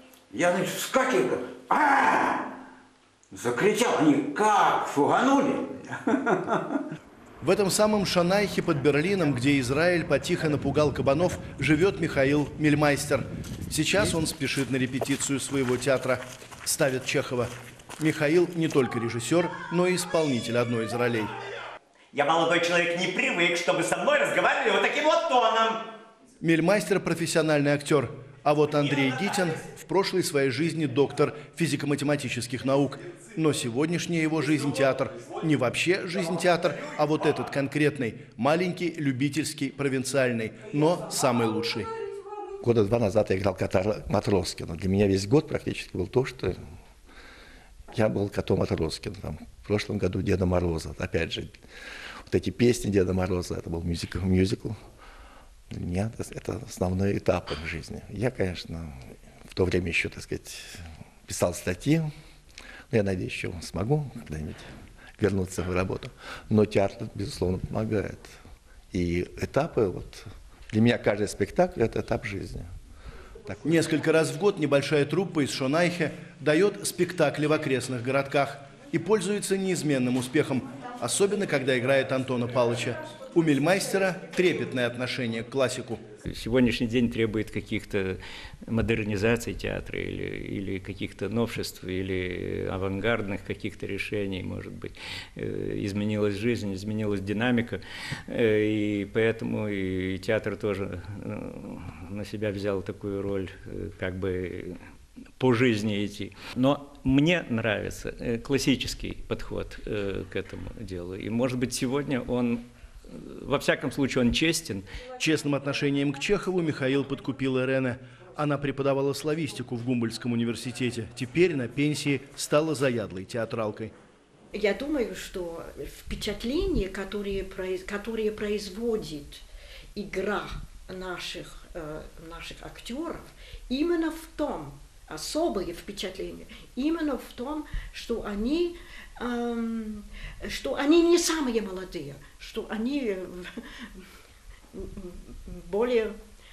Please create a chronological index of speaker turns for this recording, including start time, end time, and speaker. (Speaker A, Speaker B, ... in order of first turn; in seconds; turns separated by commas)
Speaker A: 0.3-2.5, Speaker A: 3.3-6.8, Speaker B: 7.4-21.3, Speaker C: 22.1-25.9, Speaker B: 26.4-41.9, Speaker D: 42.6-46.6, Speaker D: 47.9-51.7, Speaker D: 52.2-54.8, Speaker D: 55.7-62.1, Speaker D: 62.9-68.4, Speaker D: 68.9-72.7, Speaker B: 73.6-86.0, Speaker E: 86.2-104.8, Speaker E: 105.4-114.9, Speaker B: 115.2-123.9, Speaker F: 124.5-129.4, Speaker F: 129.9-144.1, Speaker F: 144.7-146.2